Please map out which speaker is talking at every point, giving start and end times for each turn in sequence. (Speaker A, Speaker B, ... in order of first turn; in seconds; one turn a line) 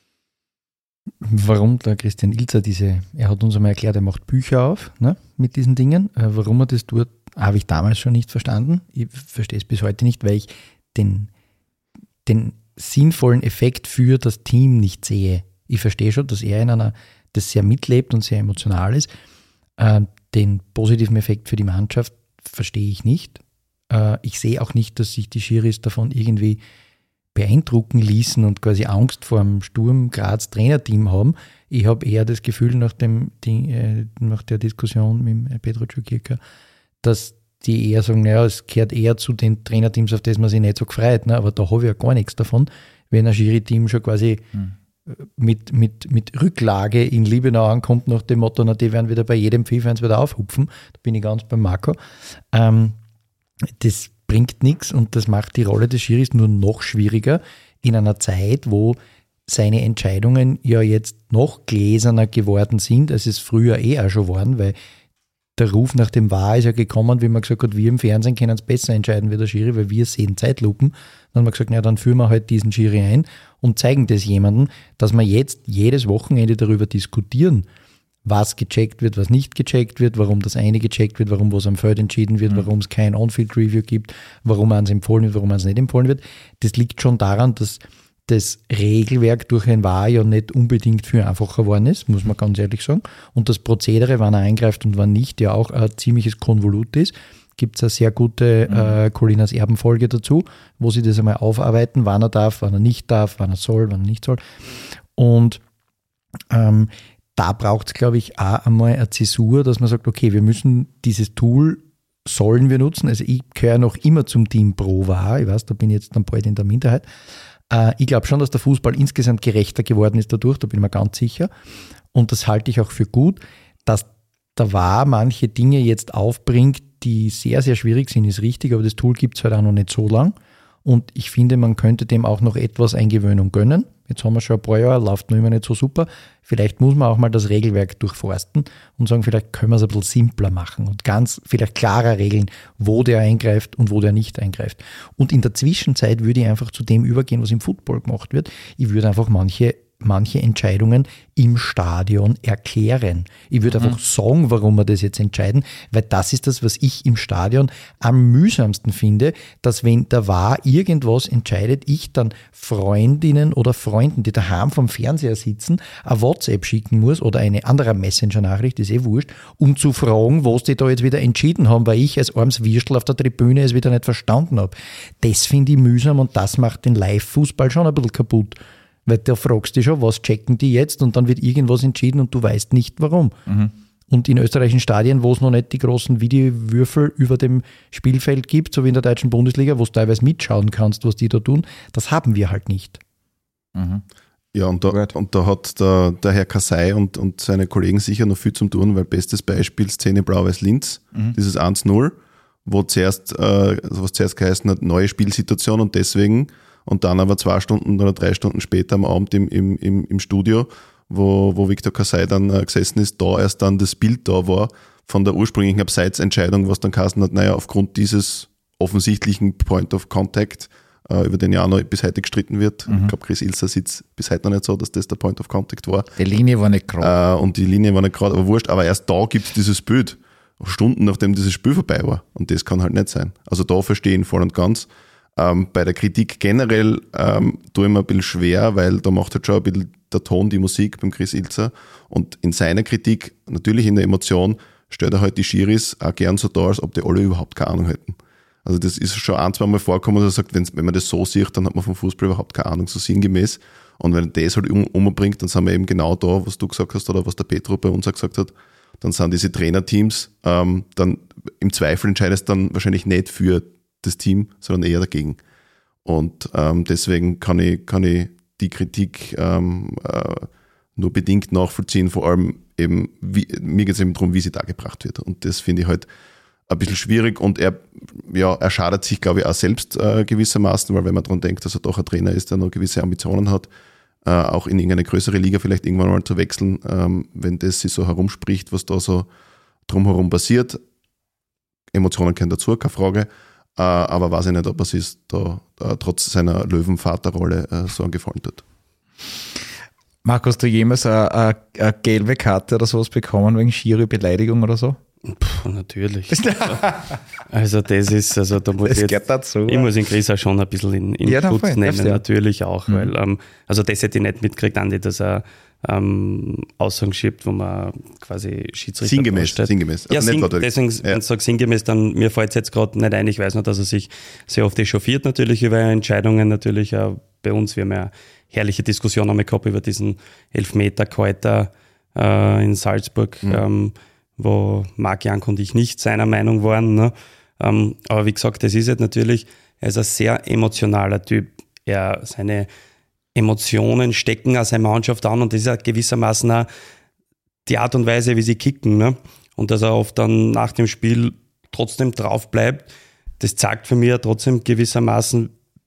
Speaker A: 1.2-11.3
Speaker A: 12.3-19.1
Speaker A: 19.8-23.4
Speaker A: 23.9-26.6
Speaker A: 27.4-36.4
Speaker A: 37.0-44.5
Speaker A: 45.1-52.0
Speaker A: 52.5-53.0
Speaker A: 53.8-64.8
Speaker A: 65.6-77.7
Speaker A: 78.2-104.4
Speaker B: 98.7-99.0
Speaker A: 105.2-105.6
Speaker A: 106.5-117.1
Speaker A: 117.7-121.5
Speaker A: 122.1-183.4
Speaker B: 153.7-154.0
Speaker B: 183.5-183.7
Speaker A: 184.1-193.0
Speaker B: 193.8-194.0
Speaker C: 194.5-226.1
Speaker B: 194.9-195.1
Speaker B: 222.9-223.1
Speaker B: 226.2-227.1
Speaker C: 227.0-265.4
Speaker C: 266.1-276.1
Speaker C: 276.7-283.7
Speaker C: 284.2-289.3
Speaker C: 289.9-290.8
Speaker C: 291.9-298.6
Speaker B: 300.2-305.0
Speaker D: 305.3-306.9
Speaker B: 306.3-307.2
Speaker D: 307.5-342.7
Speaker B: 308.8-309.9
Speaker B: 311.2-312.2
Speaker B: 312.9-313.1
Speaker C: 319.0-321.2
Speaker D: 343.4-346.7
Speaker D: 347.7-352.9
Speaker D: 353.4-355.5